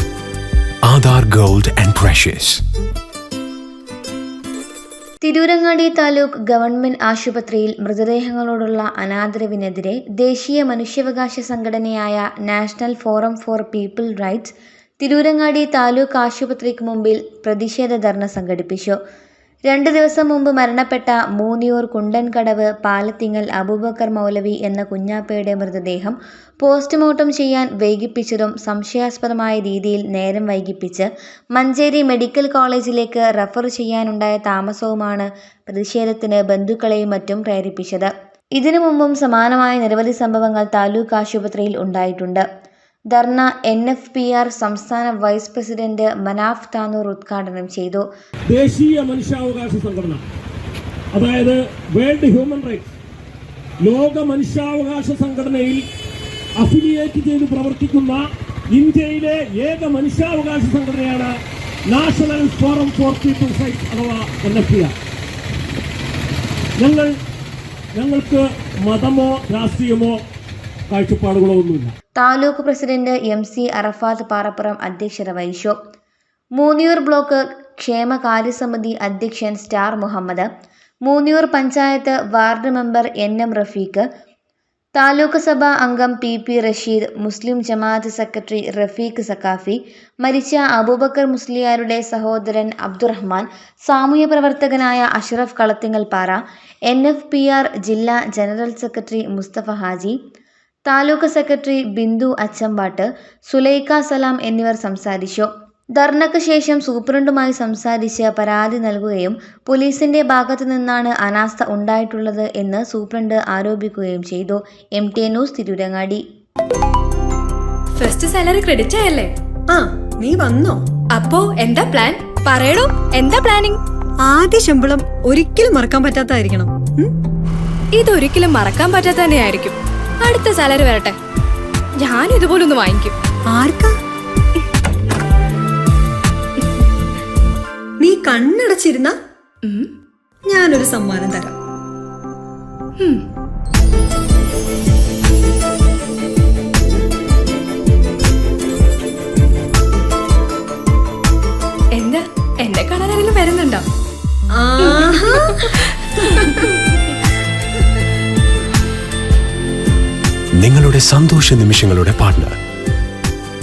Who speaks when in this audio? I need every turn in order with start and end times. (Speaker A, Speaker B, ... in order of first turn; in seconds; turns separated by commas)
Speaker A: 0.9-2.6, Speaker B: 5.2-19.0, Speaker B: 19.7-42.5, Speaker B: 43.1-48.0, Speaker C: 48.5-50.2, Speaker C: 51.1-52.9, Speaker C: 53.8-55.8, Speaker C: 56.6-61.3, Speaker C: 61.9-64.9, Speaker C: 66.8-67.1, Speaker C: 68.0-70.2, Speaker C: 70.9-71.9, Speaker B: 72.2-75.7, Speaker B: 76.6-80.5, Speaker B: 81.0-84.1, Speaker B: 85.0-96.4, Speaker B: 96.9-100.2, Speaker B: 100.9-116.2, Speaker D: 118.0-119.3, Speaker E: 119.7-120.8, Speaker D: 121.1-123.8, Speaker E: 124.2-127.1, Speaker D: 127.9-131.2, Speaker D: 132.0-133.2, Speaker E: 133.5-134.0, Speaker E: 138.0-139.2, Speaker D: 139.6-139.9, Speaker E: 140.5-141.6, Speaker D: 143.0-143.2, Speaker D: 151.9-153.8, Speaker E: 154.5-156.6, Speaker D: 154.8-156.8, Speaker A: 160.6-162.6